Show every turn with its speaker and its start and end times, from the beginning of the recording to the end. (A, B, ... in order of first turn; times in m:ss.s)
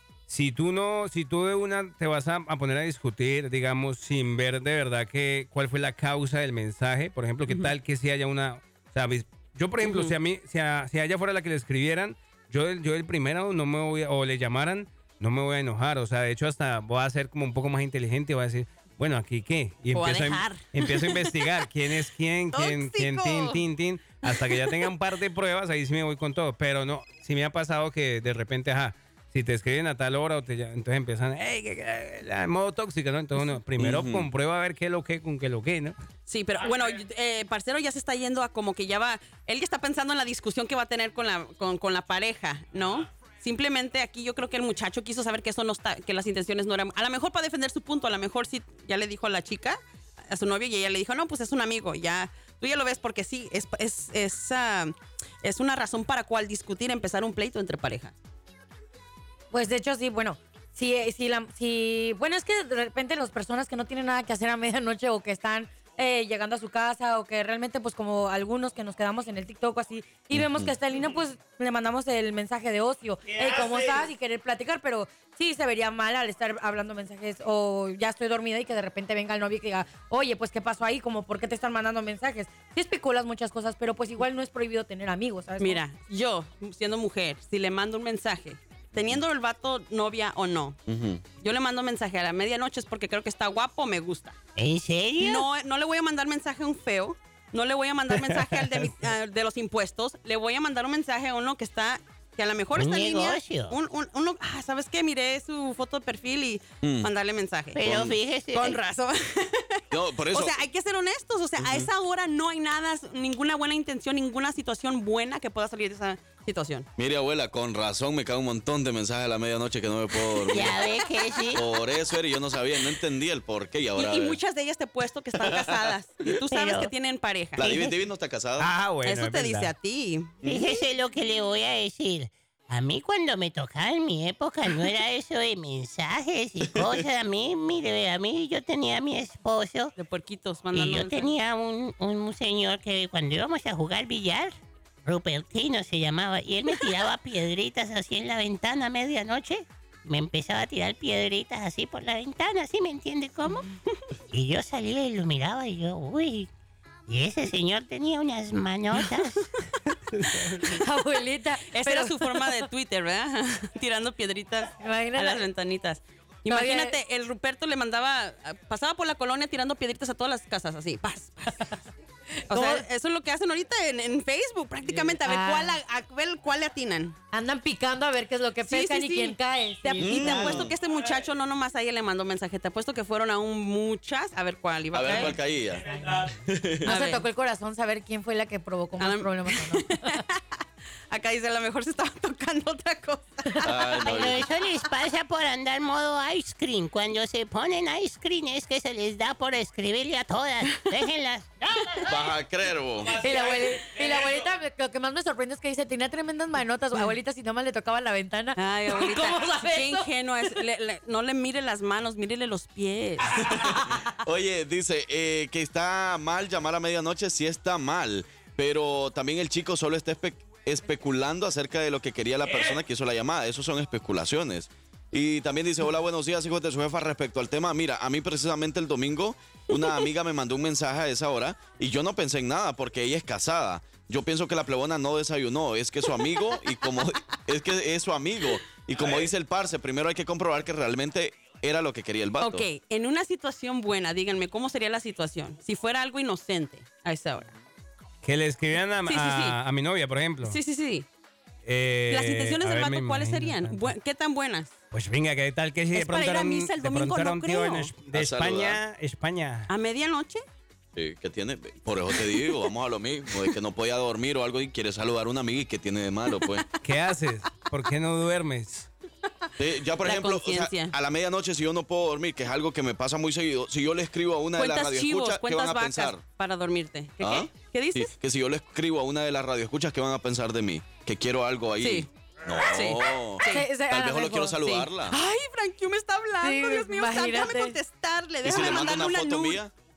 0:00.3-0:35.9 A
0:07.5-0:07.7 B
0:09.8-0:10.2 B
0:19.9-0:21.6 B
0:22.5-0:23.6 B
0:24.2-0:24.9 B
0:33.8-0:34.3 C
0:36.3-0:58.1 B
0:59.5-1:25.8 D
1:10.3-1:10.7 C
1:13.4-1:14.0 A
1:25.6-1:30.8 B
1:28.9-1:29.2 C
1:30.9-1:31.2 C
1:31.4-1:34.4 B
1:34.6-1:35.4 E
1:35.2-1:47.8 B
1:38.2-1:38.8 A
1:42.7-1:43.8 E
1:46.8-1:47.1 C
1:47.7-1:48.8 E
1:47.8-1:48.2 C
1:48.5-1:56.9 B
1:49.9-1:50.5 C
1:51.6-1:51.9 C
1:57.0-2:00.8 C
2:00.5-2:01.6 E
2:00.9-2:01.4 B
2:01.5-2:04.4 C
2:04.0-2:07.6 B
2:05.4-2:05.9 C
2:06.5-2:06.9 E
2:07.6-2:07.9 E
2:07.6-2:08.7 C
2:08.6-2:09.7 A
2:09.0-2:10.8 B
2:10.4-2:10.7 C
2:10.4-2:19.9 E
2:16.6-2:17.0 C
2:20.0-2:21.4 B
2:20.7-2:24.5 E
2:25.0-2:33.7 E
2:34.3-2:36.5 E
2:37.1-2:39.5 E
2:40.2-2:40.8 B
2:40.6-2:42.6 D
2:41.7-2:51.6 B
2:44.8-2:45.5 D
2:46.5-2:47.0 D
2:52.5-2:52.8 D
2:52.5-2:57.2 B
2:55.0-2:55.8 D
2:57.3-3:00.7 D
2:58.6-3:05.4 B
3:00.0-3:00.7 C
3:04.9-3:06.9 C
3:05.9-3:06.2 D
3:06.8-3:07.2 B
3:06.8-3:10.2 D
3:09.0-3:10.4 B
3:11.1-3:14.3 B
3:13.6-3:14.5 C
3:14.0-3:21.5 E
3:20.7-3:20.9 B
3:22.0-3:23.2 C
3:23.1-3:24.2 A
3:23.2-3:30.1 D
3:28.6-3:33.4 B
3:33.3-4:02.6 C
4:02.4-4:07.5 B
4:08.2-4:10.6 A
4:09.0-4:09.6 B
4:10.4-4:11.1 B
4:11.6-4:14.0 A
4:12.1-4:14.7 B
4:14.9-4:19.7 A
4:15.9-4:18.0 B
4:18.1-4:18.8 C
4:19.7-4:20.4 B
4:20.9-4:26.6 C
4:22.2-4:22.7 B
4:26.3-4:26.8 B
4:26.8-4:28.9 A
4:29.6-4:36.2 C
4:30.0-4:30.9 B
4:34.6-4:38.1 B
4:37.2-4:45.2 C
4:41.8-4:43.7 B
4:43.4-4:44.9 D
4:45.1-4:49.6 B
4:46.4-4:47.8 D
4:48.4-4:49.7 C